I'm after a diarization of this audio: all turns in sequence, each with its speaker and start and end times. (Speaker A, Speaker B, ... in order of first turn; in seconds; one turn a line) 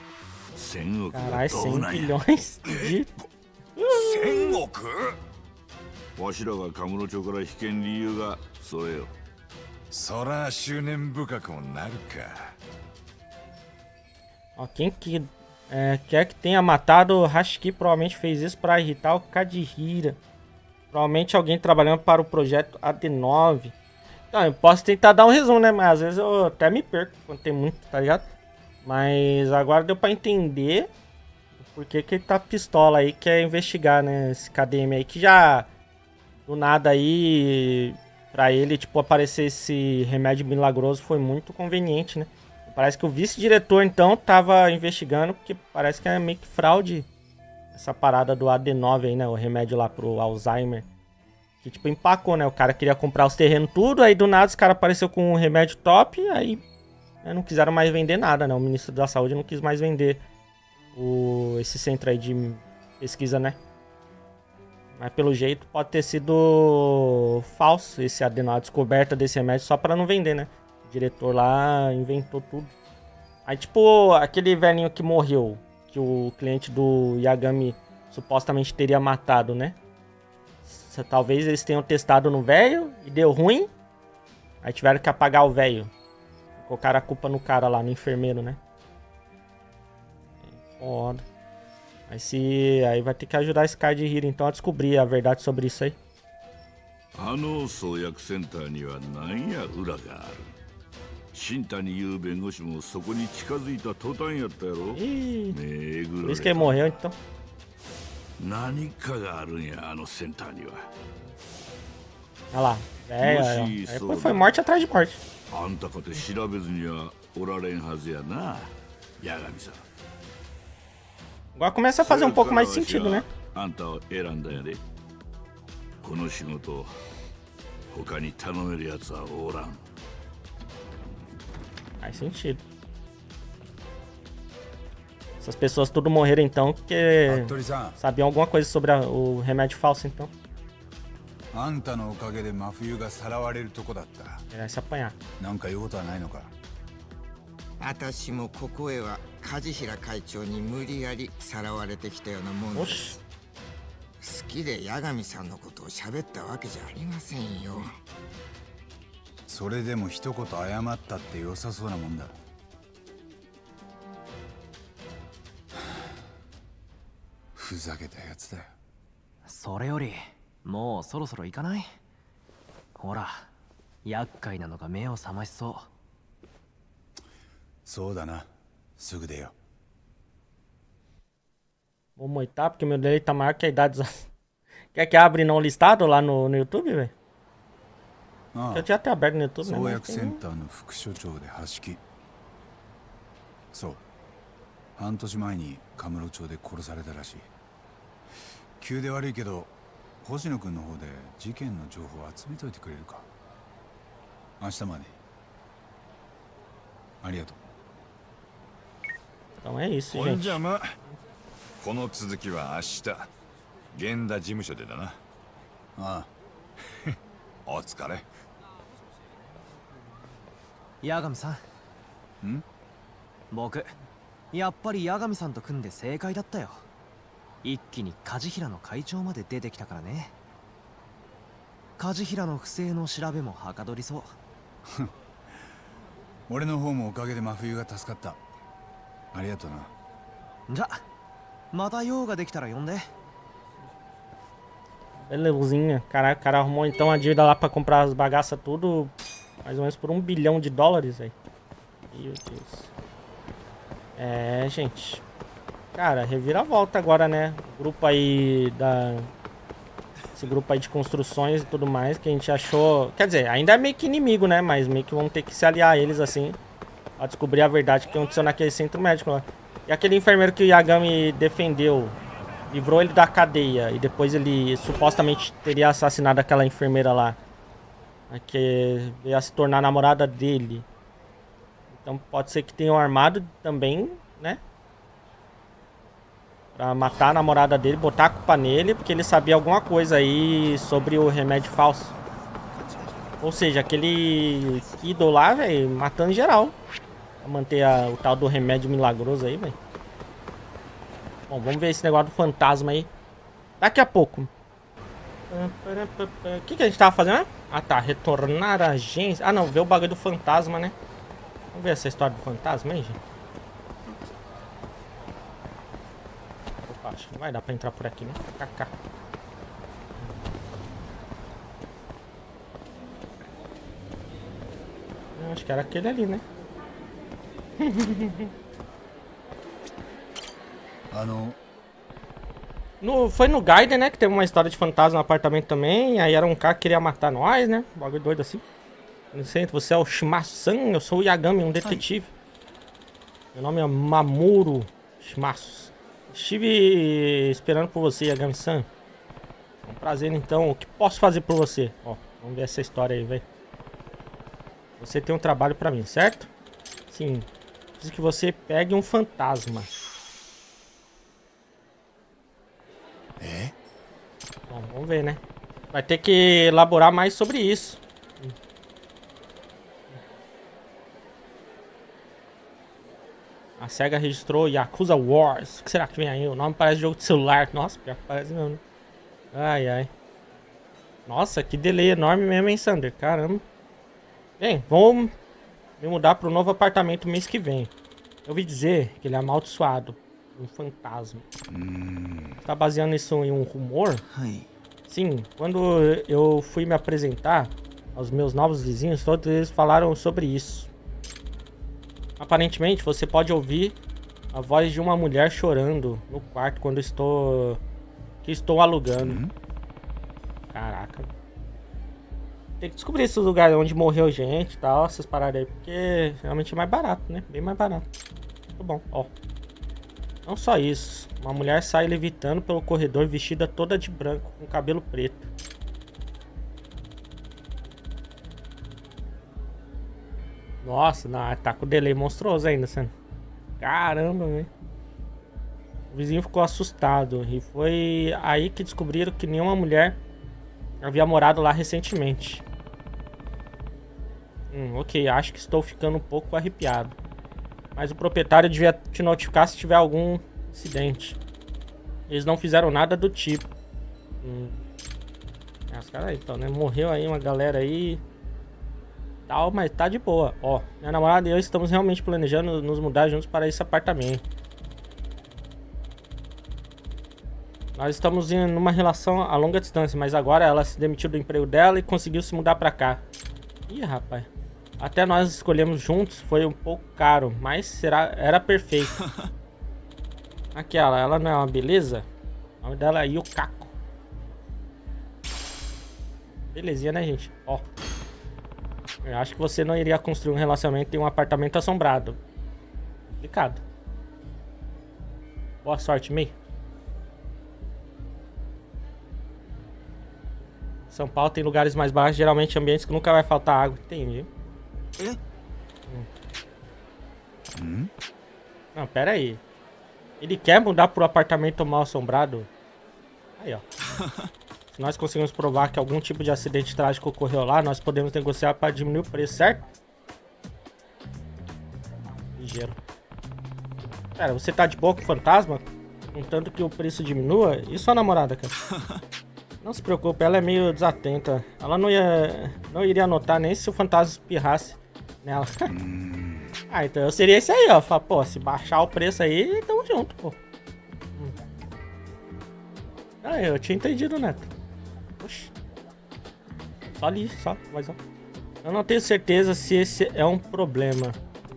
Speaker A: 0.5-2.2
Speaker B: 1.1-3.1
Speaker B: 3.8-4.6
Speaker C: 3.9-4.5
Speaker A: 6.2-9.1
Speaker C: 9.9-12.5
Speaker B: 14.6-20.2
Speaker B: 20.9-23.7
Speaker B: 24.3-28.3
Speaker B: 28.8-30.9
Speaker B: 31.6-35.6
Speaker B: 36.5-47.1
Speaker B: 47.7-50.9
Speaker B: 51.6-56.6
Speaker B: 57.2-60.2
Speaker B: 60.9-63.6
Speaker B: 65.0-72.7
Speaker B: 73.5-79.8
Speaker B: 80.7-83.7
Speaker B: 84.6-85.9
Speaker B: 86.6-88.6
Speaker B: 90.5-91.2
Speaker B: 92.1-96.0
Speaker A: 97.1-100.5
Speaker A: 101.3-107.0
Speaker B: 104.9-105.6
Speaker B: 106.2-107.1
Speaker A: 108.4-110.9
Speaker B: 112.5-115.2
Speaker A: 113.2-114.5
Speaker A: 115.5-119.8
Speaker B: 121.5-123.3
Speaker A: 122.0-124.8
Speaker A: 126.0-126.9
Speaker A: 127.9-129.8
Speaker B: 132.0-132.6
Speaker B: 135.4-140.3
Speaker D: 137.3-138.0
Speaker D: 141.5-144.4
Speaker B: 144.5-145.2
Speaker D: 145.4-146.5
Speaker E: 147.8-153.1
Speaker B: 152.7-153.2
Speaker E: 154.2-158.0
Speaker D: 159.5-162.4
Speaker D: 167.5-168.7
Speaker F: 169.4-171.9
Speaker F: 173.0-173.5
Speaker F: 174.0-175.9
Speaker D: 177.8-179.5
Speaker B: 182.2-184.3
Speaker B: 184.9-187.1
Speaker D: 188.5-188.9
Speaker B: 188.7-190.4
Speaker D: 189.6-192.0
Speaker D: 193.7-194.0
Speaker D: 194.9-197.5
Speaker D: 198.8-203.3
Speaker D: 204.6-205.2
Speaker D: 207.2-207.6
Speaker B: 209.6-210.6
Speaker C: 210.1-211.0
Speaker C: 211.8-213.3
Speaker C: 213.9-215.2
Speaker D: 215.9-216.3
Speaker C: 217.7-218.3
Speaker F: 221.0-221.6
Speaker F: 223.5-223.9
Speaker F: 224.5-226.8
Speaker F: 227.6-230.3
Speaker F: 232.0-234.3
Speaker D: 234.9-235.6
Speaker D: 236.5-238.4
Speaker D: 239.3-239.9
Speaker F: 240.7-241.0
Speaker F: 241.7-243.1
Speaker B: 245.3-249.1
Speaker B: 249.6-251.3
Speaker B: 252.1-252.9
Speaker B: 254.2-255.2
Speaker B: 255.9-259.3
Speaker B: 260.3-266.6
Speaker B: 267.2-272.1
Speaker B: 272.7-277.4
Speaker B: 278.3-280.8
Speaker B: 281.9-284.6
Speaker B: 286.8-292.1
Speaker B: 293.4-296.7
Speaker B: 297.4-299.8
Speaker B: 301.5-303.1
Speaker B: 303.8-304.5
Speaker B: 305.5-310.9
Speaker B: 311.7-313.2
Speaker B: 316.8-318.9
Speaker B: 325.4-326.4
Speaker B: 327.8-328.5
Speaker D: 331.1-331.6
Speaker B: 333.0-338.6
Speaker B: 339.3-342.3
Speaker B: 343.5-348.9
Speaker B: 349.8-353.4
Speaker B: 355.0-356.5
Speaker B: 357.1-357.5
Speaker B: 358.0-359.9
Speaker D: 363.4-363.7
Speaker B: 364.7-365.4
Speaker B: 365.9-368.5
Speaker B: 373.8-378.8
Speaker B: 379.5-380.1
Speaker B: 381.3-383.6
Speaker B: 384.6-385.3
Speaker B: 386.0-387.9
Speaker B: 388.4-391.4
Speaker D: 391.7-392.6
Speaker B: 392.6-394.2
Speaker B: 395.1-400.9
Speaker B: 402.4-403.9
Speaker B: 404.5-407.8
Speaker B: 408.4-409.4
Speaker D: 409.2-409.5
Speaker B: 410.7-411.3
Speaker B: 412.8-418.1
Speaker B: 418.8-419.3
Speaker B: 420.4-425.5
Speaker B: 430.8-433.1
Speaker B: 433.8-434.7
Speaker B: 436.1-440.2
Speaker B: 441.0-442.6
Speaker B: 444.7-447.1
Speaker B: 447.9-451.4
Speaker B: 452.3-453.7
Speaker B: 454.4-454.8
Speaker B: 455.9-458.2
Speaker B: 459.5-464.4
Speaker B: 467.9-473.2
Speaker B: 473.9-474.5
Speaker B: 475.0-479.1
Speaker B: 480.7-482.2
Speaker B: 482.8-483.9
Speaker B: 486.7-487.8
Speaker B: 489.2-492.4
Speaker B: 493.4-493.8
Speaker B: 495.8-496.5
Speaker B: 501.1-504.5
Speaker D: 507.7-508.1
Speaker B: 508.9-509.6
Speaker B: 510.4-512.7
Speaker B: 513.6-513.8
Speaker B: 514.9-519.9
Speaker B: 522.6-523.0
Speaker B: 524.4-528.8
Speaker B: 529.8-535.9
Speaker D: 535.9-536.7
Speaker B: 536.9-540.6
Speaker B: 543.4-544.7
Speaker B: 545.4-545.7
Speaker B: 547.2-548.2
Speaker B: 548.8-551.4